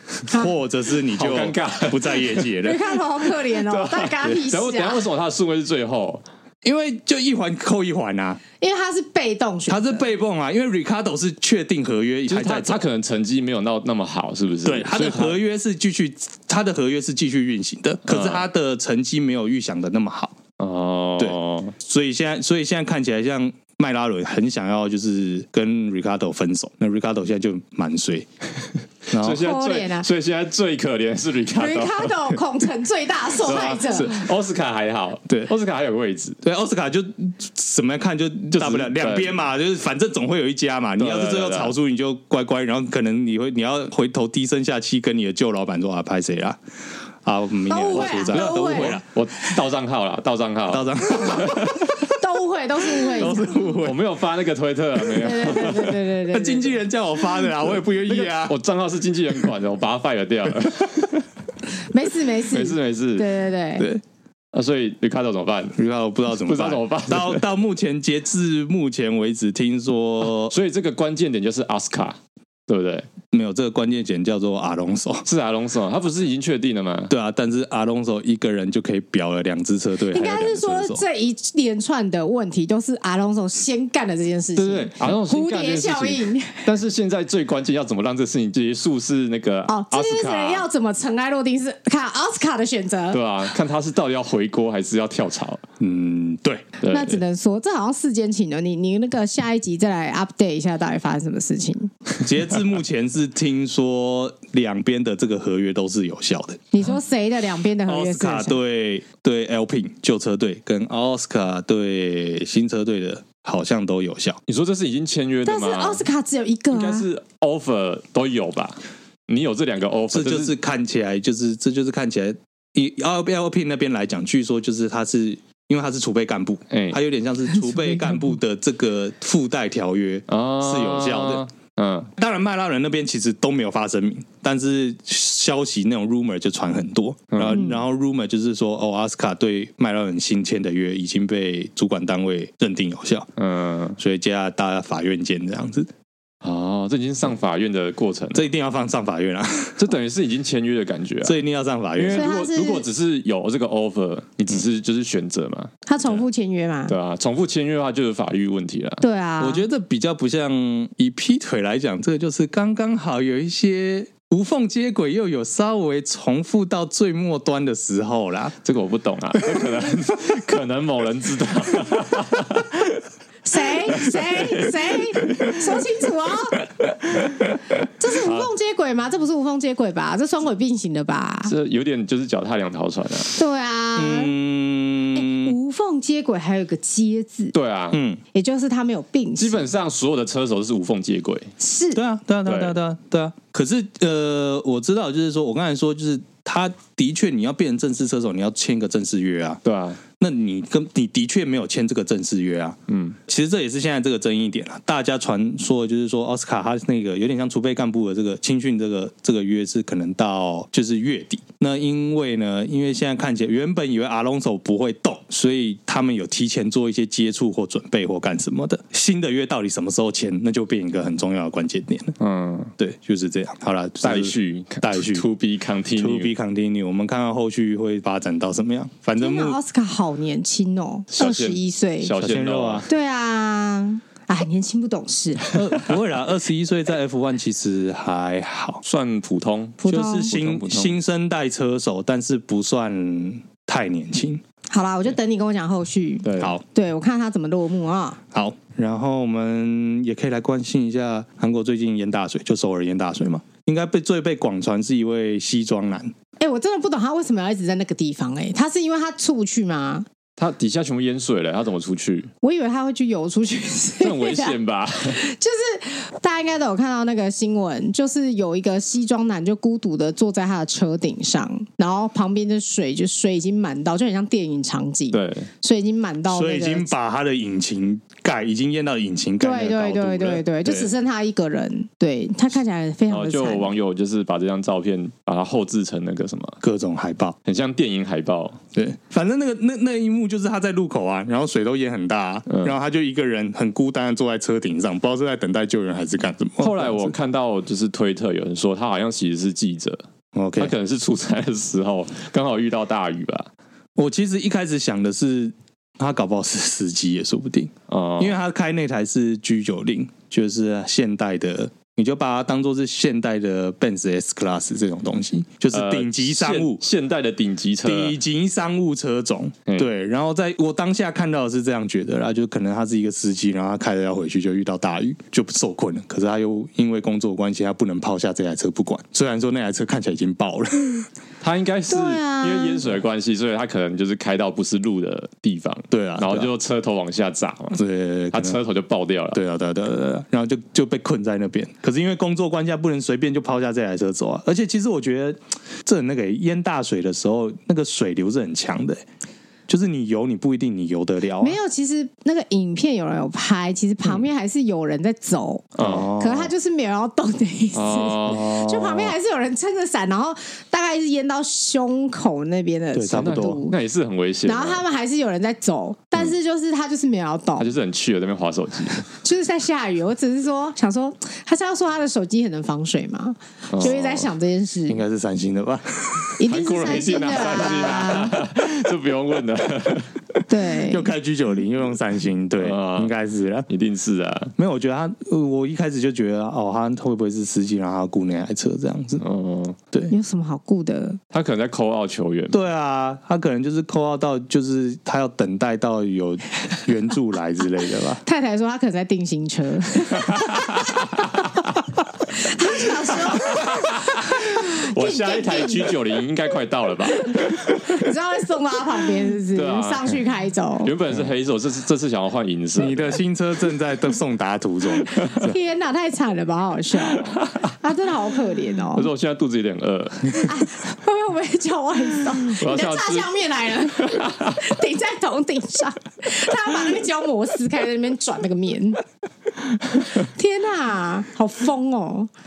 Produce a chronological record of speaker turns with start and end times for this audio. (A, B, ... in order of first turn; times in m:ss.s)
0:00.3-0:02.9 A
0:01.1-0:02.5 B
0:02.6-0:05.1 C
0:03.5-0:06.2 B
0:06.6-0:08.4 A
0:08.6-0:10.0 C
0:09.7-0:12.9 A
0:12.3-0:15.4 B
0:14.6-0:20.4 A
0:18.1-0:18.4 B
0:20.6-0:21.7 B
0:21.2-0:28.3 A
0:29.1-0:29.5 A
0:29.1-0:32.3 B
0:29.2-0:30.1 C
0:31.6-0:34.2 C
0:33.4-0:36.4 B
0:33.9-0:34.2 A
0:36.4-0:46.6 A
0:38.6-0:39.4 B
0:41.0-0:41.8 B
0:47.2-0:49.0 A
0:47.7-0:49.0 C
0:47.9-0:51.9 B
0:50.7-0:52.1 A
0:52.1-0:53.8 C
0:53.0-0:54.0 A
0:53.8-0:56.0 B
0:55.2-0:56.8 C
0:56.3-0:58.6 A
0:58.1-1:01.3 B
1:01.8-1:03.9 C
1:02.5-1:03.3 B
1:04.5-1:05.8 B
1:05.8-1:10.6 A
1:06.4-1:07.4 B
1:10.4-1:13.1 B
1:13.3-1:15.3 A
1:15.3-1:17.1 B
1:17.1-1:21.0 A
1:20.1-1:26.7 C
1:24.6-1:30.7 B
1:29.7-1:33.2 C
1:33.1-1:35.6 B
1:35.8-1:36.7 A
1:36.8-1:37.2 B
1:36.8-1:41.9 C
1:42.2-1:46.6 A
1:46.7-1:48.6 C
1:47.8-1:54.4 A
1:54.5-1:56.0 B
1:55.4-1:57.1 C
1:56.7-2:00.5 B
2:00.1-2:11.5 A
2:06.7-2:07.0 B
2:10.3-2:12.1 B
2:12.2-2:23.3 A
2:17.3-2:17.6 B
2:17.5-2:17.8 C
2:23.4-2:24.0 B
2:24.0-2:25.9 A
2:26.4-2:28.5 B
2:28.3-2:29.8 A
2:29.8-2:31.4 B
2:31.2-2:32.3 A
2:32.0-2:36.2 B
2:32.1-2:32.9 C
2:35.9-2:36.9 C
2:36.9-2:39.0 B
2:39.0-2:39.6 C
2:39.4-2:48.6 A
2:48.6-2:53.0 B
2:53.4-2:56.6 C
2:54.0-2:54.7 B
2:55.3-2:55.5 B
2:57.8-3:01.5 C
3:01.5-3:03.3 B
3:03.4-3:04.3 C
3:04.0-3:05.6 A
3:05.1-3:07.6 C
3:07.5-3:08.0 B
3:07.9-3:08.2 A
3:08.3-3:09.7 C
3:09.4-3:11.5 B
3:11.6-3:12.0 C
3:12.0-3:19.6 A
3:12.5-3:12.8 B
3:19.6-3:20.0 B
3:20.2-3:42.2 A
3:22.9-3:23.2 B
3:42.2-3:42.7 B
3:42.8-3:45.3 A
3:44.0-3:46.3 B
3:46.0-3:49.6 A
3:49.2-3:52.1 C
3:51.1-3:52.9 B
3:52.2-3:52.9 A
3:52.9-3:55.8 C
3:55.5-3:58.8 A
3:58.8-4:01.0 B
3:59.8-4:00.3 C
3:59.9-4:04.4 A
4:04.7-4:08.2 C
4:06.2-4:06.6 B
4:06.4-4:06.6 A
4:08.3-4:16.1 A
4:16.4-4:20.1 C
4:20.4-4:22.3 B
4:22.4-4:36.9 C
4:24.0-4:25.2 B
4:35.1-4:35.5 B
4:36.3-4:40.9 A
4:39.4-4:43.7 C
4:43.1-4:46.6 B
4:46.6-4:47.4 A
4:47.5-4:48.6 B
4:48.7-4:57.1 A
4:52.5-4:52.7 B
4:56.6-5:00.0 B
5:00.3-5:00.8 A
5:00.6-5:03.5 B
5:04.0-5:16.8 A
5:07.9-5:08.4 B
5:15.7-5:18.2 B
5:17.8-5:31.1 A
5:31.4-5:37.8 B
5:31.9-5:32.9 C
5:35.9-5:36.5 A
5:37.7-5:38.6 A
5:38.3-5:39.4 B
5:39.3-5:49.0 A
5:49.7-5:51.6 A
5:51.4-6:03.8 C
5:55.8-5:56.1 B
5:55.8-5:56.5 A
5:57.7-5:58.5 B
5:58.3-5:59.2 A
6:02.9-6:03.6 A
6:03.1-6:04.8 B
6:04.5-6:07.7 C
6:07.6-6:09.0 B
6:09.1-6:15.0 C
6:13.7-6:14.3 B
6:14.9-6:16.4 A
6:16.4-6:18.4 C
6:16.5-6:20.2 B
6:20.5-6:21.1 C
6:20.9-6:23.7 A
6:22.6-6:23.1 B
6:23.7-6:24.5 B
6:24.6-6:29.2 A
6:29.2-6:29.8 B
6:30.1-6:31.2 C
6:31.3-6:32.6 B
6:32.5-6:38.2 A
6:38.2-6:40.9 C
6:40.2-6:41.2 B
6:42.3-6:46.0 C
6:43.3-6:47.9 B
6:47.1-6:50.9 C
6:49.5-6:50.2 B
6:50.8-6:53.2 B
6:52.8-6:55.5 A
6:55.1-6:55.5 B
6:55.4-6:59.1 C
6:57.2-6:57.6 B
6:58.9-7:00.6 B
7:00.3-7:09.0 C
7:02.5-7:04.6 B
7:10.0-7:12.3 C